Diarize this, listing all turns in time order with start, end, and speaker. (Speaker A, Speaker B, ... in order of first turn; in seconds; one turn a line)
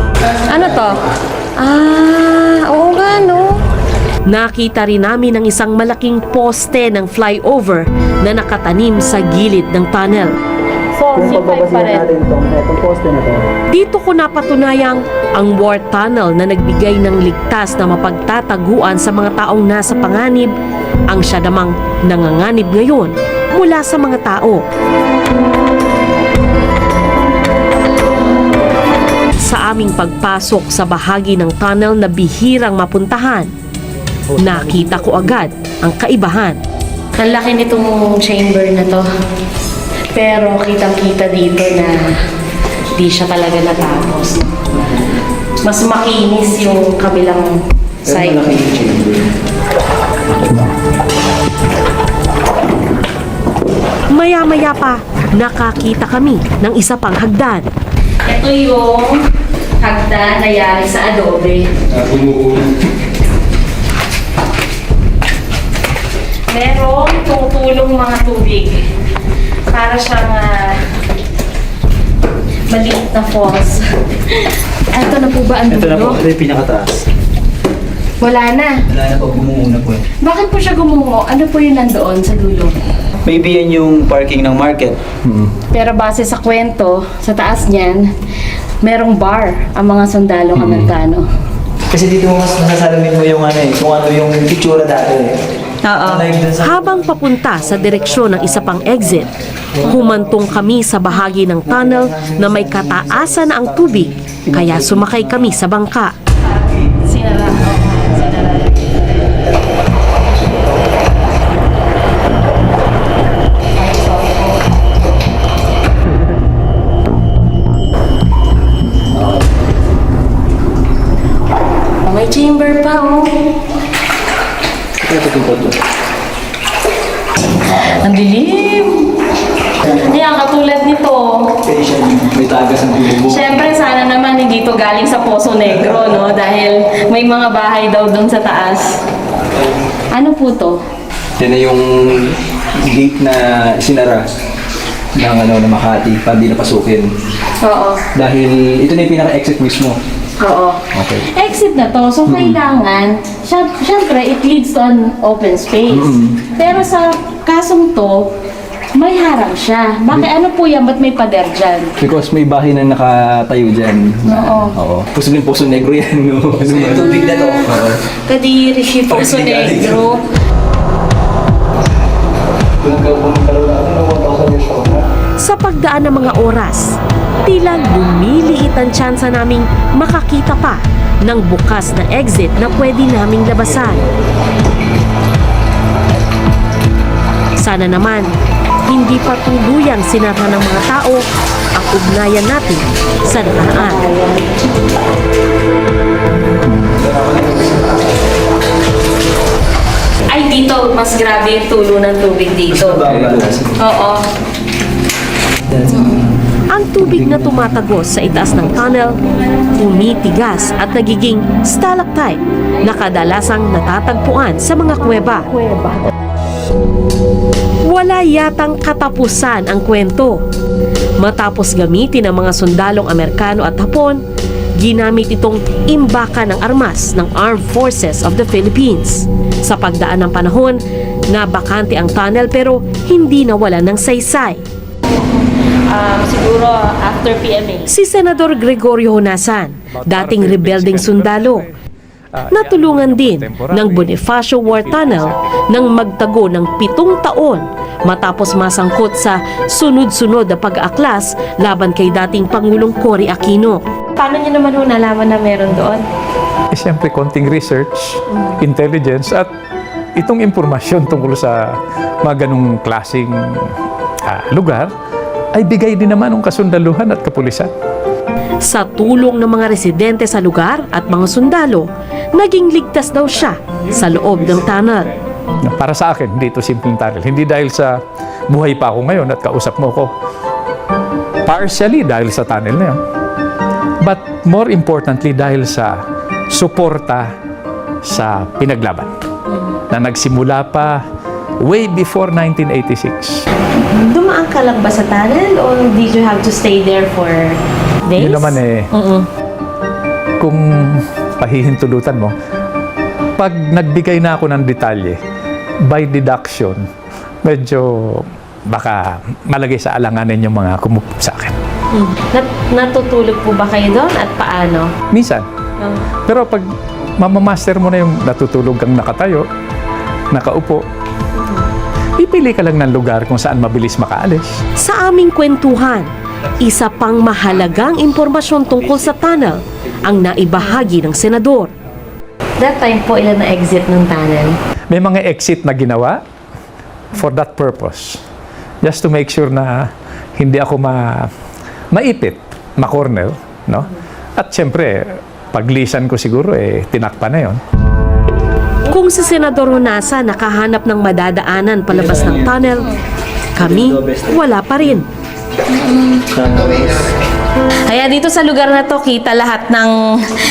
Speaker A: 0.2-1.0
Speaker A: 1.6-3.6
Speaker B: 4.3-10.3
Speaker A: 10.9-12.1
Speaker C: 11.2-13.5
Speaker B: 13.7-20.5
Speaker B: 21.1-24.6
Speaker B: 29.4-33.5
Speaker B: 34.4-36.6
Speaker A: 37.2-39.1
Speaker A: 40.1-42.0
Speaker A: 43.0-44.5
Speaker A: 45.6-47.5
Speaker A: 48.0-48.5
Speaker C: 48.1-49.2
Speaker B: 54.1-57.6
Speaker A: 58.3-59.2
Speaker A: 59.8-61.7
Speaker D: 61.9-62.6
Speaker A: 66.5-68.8
Speaker A: 69.7-70.8
Speaker A: 72.7-76.2
Speaker C: 75.7-76.9
Speaker A: 78.2-78.8
Speaker C: 78.9-80.0
Speaker A: 80.2-82.7
Speaker C: 83.2-85.0
Speaker D: 85.3-85.5
Speaker A: 85.7-88.1
Speaker A: 88.8-91.2
Speaker D: 90.6-90.9
Speaker C: 91.9-95.3
Speaker A: 95.8-96.3
Speaker C: 96.0-96.8
Speaker B: 96.6-99.3
Speaker B: 99.8-106.1
Speaker C: 104.5-105.2
Speaker A: 107.0-108.6
Speaker A: 113.8-114.5
Speaker A: 122.1-123.4
Speaker D: 125.1-125.6
Speaker A: 127.7-129.0
Speaker A: 129.9-131.6
Speaker C: 131.7-132.2
Speaker D: 132.4-133.5
Speaker A: 133.2-138.9
Speaker A: 140.1-140.8
Speaker D: 141.4-144.2
Speaker D: 145.2-147.1
Speaker A: 147.6-148.0
Speaker D: 148.2-150.0
Speaker A: 150.4-158.3
Speaker D: 151.0-151.2
Speaker D: 152.3-152.6
Speaker D: 155.9-156.3
Speaker A: 159.0-161.9
Speaker D: 162.0-167.5
Speaker A: 164.3-164.8
Speaker A: 167.3-167.6
Speaker A: 168.3-170.2
Speaker D: 169.4-169.9
Speaker D: 172.8-175.0
Speaker B: 175.4-176.9
Speaker B: 177.5-184.0
Speaker B: 187.6-188.3
Speaker B: 188.9-191.2
Speaker B: 191.8-194.0
Speaker C: 197.1-197.6
Speaker A: 200.3-203.0
Speaker D: 202.7-203.7
Speaker A: 203.8-204.2
Speaker A: 205.9-206.2
Speaker B: 206.7-209.2
Speaker B: 209.8-215.5
Speaker A: 215.5-215.9
Speaker B: 217.9-220.4
Speaker B: 221.2-224.2
Speaker B: 224.8-230.8
Speaker B: 231.3-234.6
Speaker A: 235.2-237.9
Speaker B: 237.9-241.7
Speaker E: 240.0-241.7
Speaker E: 242.4-245.4
Speaker B: 242.5-253.8
Speaker A: 254.2-256.0
Speaker E: 256.7-259.5
Speaker E: 260.2-263.6
Speaker E: 264.3-264.9
Speaker E: 265.5-267.7
Speaker B: 268.6-275.1
Speaker E: 275.6-278.0
Speaker E: 278.5-280.1
Speaker E: 281.5-283.0
Speaker E: 284.0-286.0
Speaker E: 286.5-287.3
Speaker E: 288.1-289.1
Speaker E: 289.9-291.0
Speaker E: 291.6-293.3
Speaker A: 293.8-297.6
Speaker A: 298.1-299.3
Speaker E: 298.2-298.9
Speaker E: 300.4-302.3
Speaker E: 303.4-305.2
Speaker E: 305.9-306.8
Speaker E: 307.4-311.6
Speaker A: 311.9-314.9
Speaker E: 315.1-315.5
Speaker E: 316.3-316.7
Speaker E: 317.2-319.5
Speaker E: 320.3-320.8
Speaker E: 322.2-324.6
Speaker B: 324.8-326.1
Speaker B: 326.6-331.7
Speaker A: 332.6-334.6
Speaker E: 334.9-336.2
Speaker E: 337.1-338.2
Speaker E: 338.8-341.3
Speaker E: 341.9-345.0
Speaker E: 345.5-347.6
Speaker B: 348.9-352.9
Speaker B: 353.6-355.1
Speaker C: 353.6-354.4
Speaker A: 355.9-356.2
Speaker C: 356.3-357.0
Speaker A: 357.9-359.9